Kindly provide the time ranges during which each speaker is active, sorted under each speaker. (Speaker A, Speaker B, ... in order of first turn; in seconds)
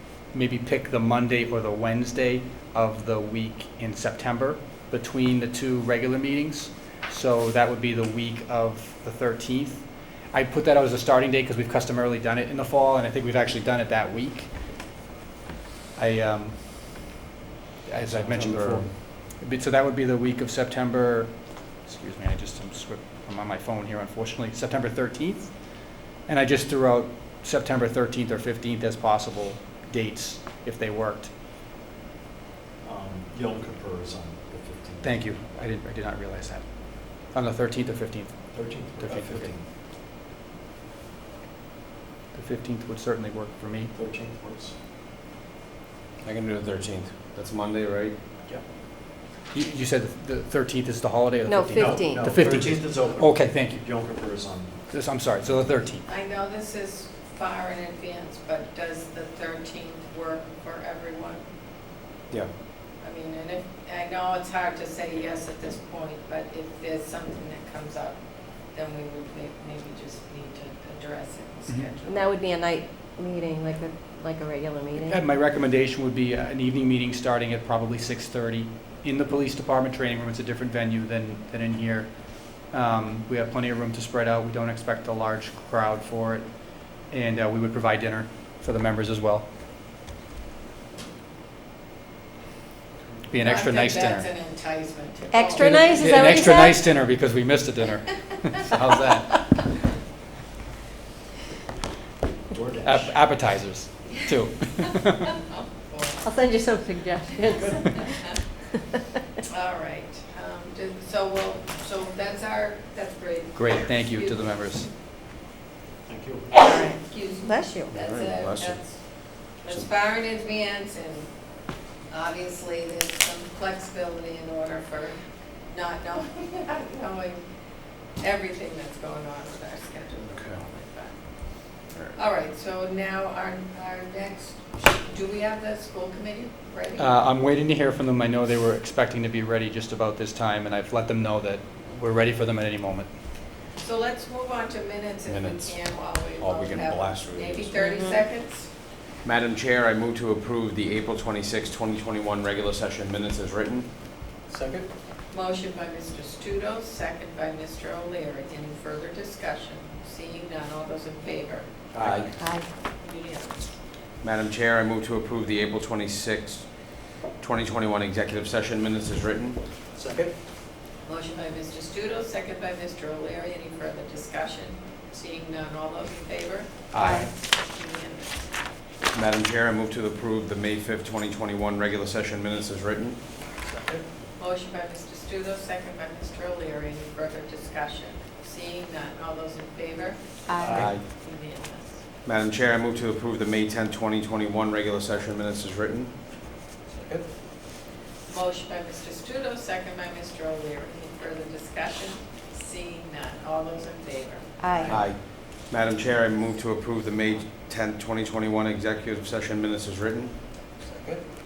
Speaker A: 0.3-14.5, 15.9-16.6, 17.9-31.3, 35.0-39.5, 42.3-43.9, 49.5-54.0, 54.9-56.0, 75.0-89.5, 93.3-94.3, 95.6-99.8, 102.8-105.3, 113.5-114.9, 137.0-143.1, 176.9-177.2
Speaker B: 18.1-18.9, 46.2-48.2, 117.9-119.0, 119.5-119.9, 130.3-130.6, 145.3-147.7, 149.2-153.9, 161.9-162.3, 164.2-169.6, 176.9-177.3, 179.1-183.2, 190.7-191.0, 192.2-196.1, 204.9-210.3
Speaker C: 32.8-35.2, 38.5-39.6, 43.9-44.7, 51.8-54.9, 102.5-103.1, 116.0-116.5, 154.5-154.9, 169.9-170.3, 183.6-184.0, 190.6-190.9, 196.9-197.2, 204.8-205.1, 210.8-211.2
Speaker D: 51.4-52.4, 72.0-75.2, 95.3-96.9, 106.2-108.3, 116.6-117.9, 147.8-148.2, 162.4-162.7, 177.0-177.2, 190.5-190.9, 204.6-204.9
Speaker E: 56.0-61.5, 63.0-72.2, 93.3-96.3, 105.5-106.2, 109.5-114.3, 116.6-121.3, 122.1-127.5, 128.1-131.5, 132.2-137.1, 143.8-148.7, 155.3-161.8, 162.9-163.8, 171.0-178.5, 184.4-192.0, 198.3-204.9